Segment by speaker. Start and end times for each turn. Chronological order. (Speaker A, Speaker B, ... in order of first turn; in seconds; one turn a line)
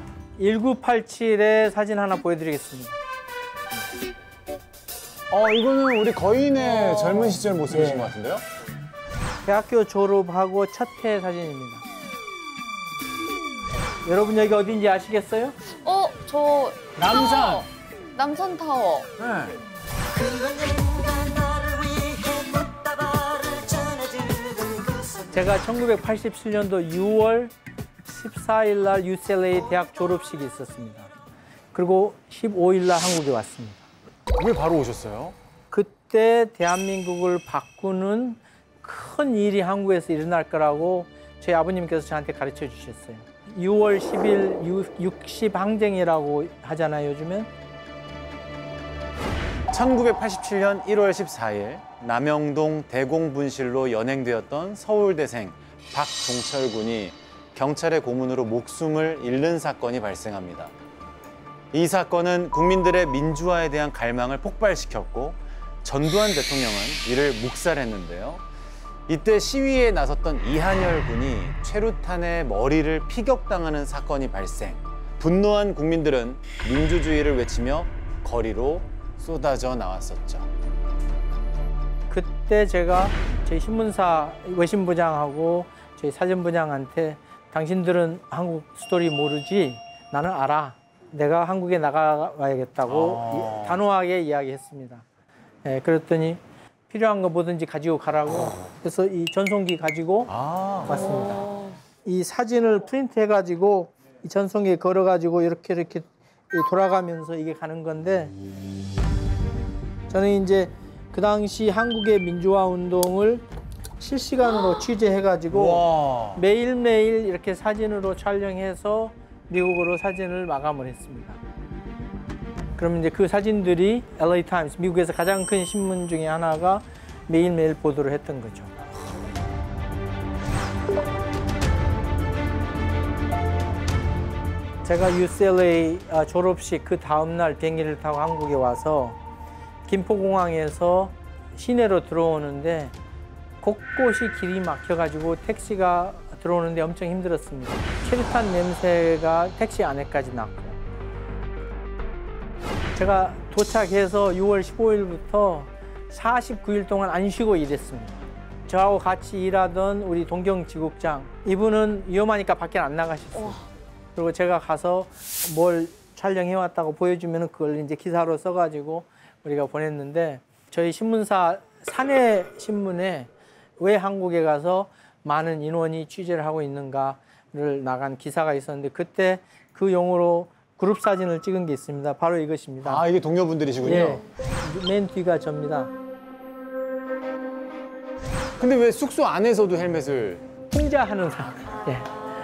Speaker A: 0.4-3.0
Speaker B: 5.3-8.4
Speaker A: 7.7-8.1
Speaker A: 9.4-11.8
Speaker A: 14.0-15.6
Speaker C: 15.8-19.1
Speaker B: 17.0-17.7
Speaker B: 19.2-19.6
Speaker C: 20.1-25.2
Speaker A: 25.3-27.5
Speaker A: 28.1-31.1
Speaker A: 31.7-33.9
Speaker B: 34.4-35.4
Speaker A: 35.7-47.5
Speaker B: 49.7-60.7
Speaker B: 61.7-68.4
Speaker B: 69.1-80.5
Speaker A: 82.1-95.0
Speaker B: 92.8-93.8
Speaker A: 95.6-100.3
Speaker B: 100.3-101.0
Speaker A: 100.8-101.4
Speaker C: 101.2-101.8
Speaker A: 102.0-108.3
Speaker A: 110.1-121.4
Speaker B: 115.5-116.4
Speaker A: 122.8-128.7
Speaker A: 134.8-139.2
Speaker A: 139.8-142.9
Speaker A: 143.6-150.8
Speaker A: 152.9-163.6
Speaker A: 164.2-183.0
Speaker B: 182.8-184.2
Speaker A: 183.8-185.9
Speaker B: 188.6-190.5
Speaker A: 190.7-192.1